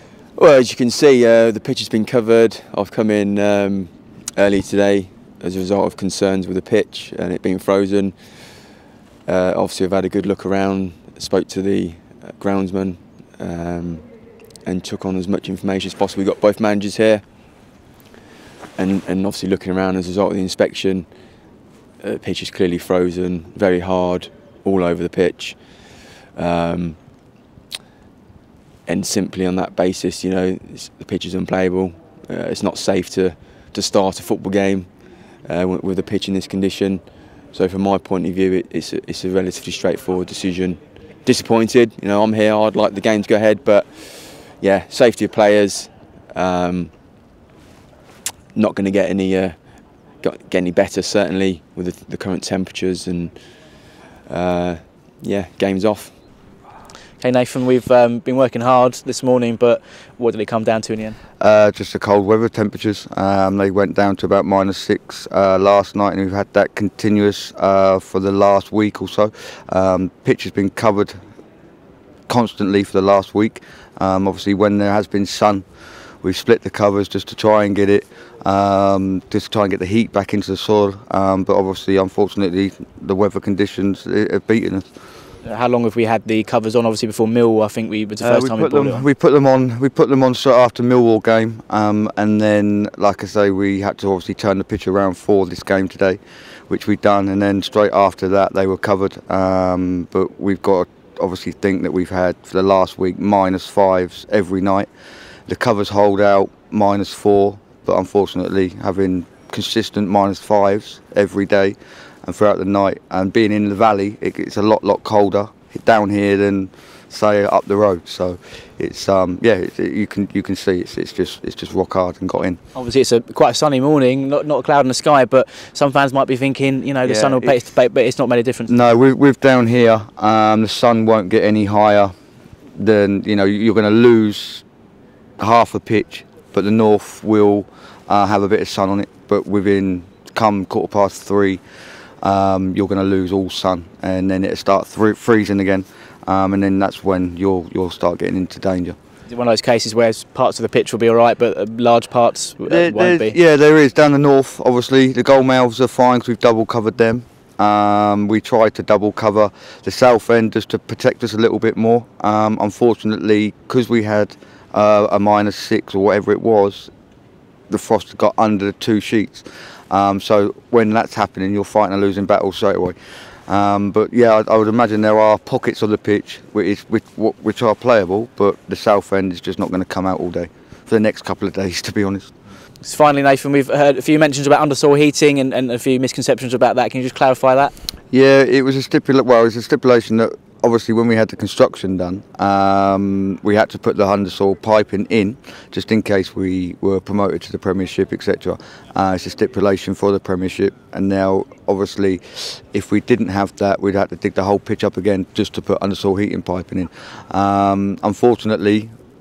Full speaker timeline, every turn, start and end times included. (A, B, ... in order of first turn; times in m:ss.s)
0:00.4-0:17.4 A
0:18.8-0:27.1 A
0:28.9-0:47.0 A
0:48.5-0:56.2 A
0:57.2-1:01.2 B
1:01.4-1:11.2 C
1:12.3-1:15.7 C
1:16.2-1:24.8 C
1:25.4-1:29.1 B
1:28.2-1:44.9 C
1:45.5-2:02.6 C
2:02.8-2:08.7 B
2:07.0-2:07.6 C
2:08.7-2:12.1 C
2:12.8-2:14.7 C
2:15.4-2:21.6 C
2:22.2-2:29.0 C
2:29.3-2:33.4 B
2:32.7-2:46.9 C
2:47.7-2:53.0 C
2:53.5-3:02.3 C
3:02.8-3:07.7 B
3:08.1-3:28.9 C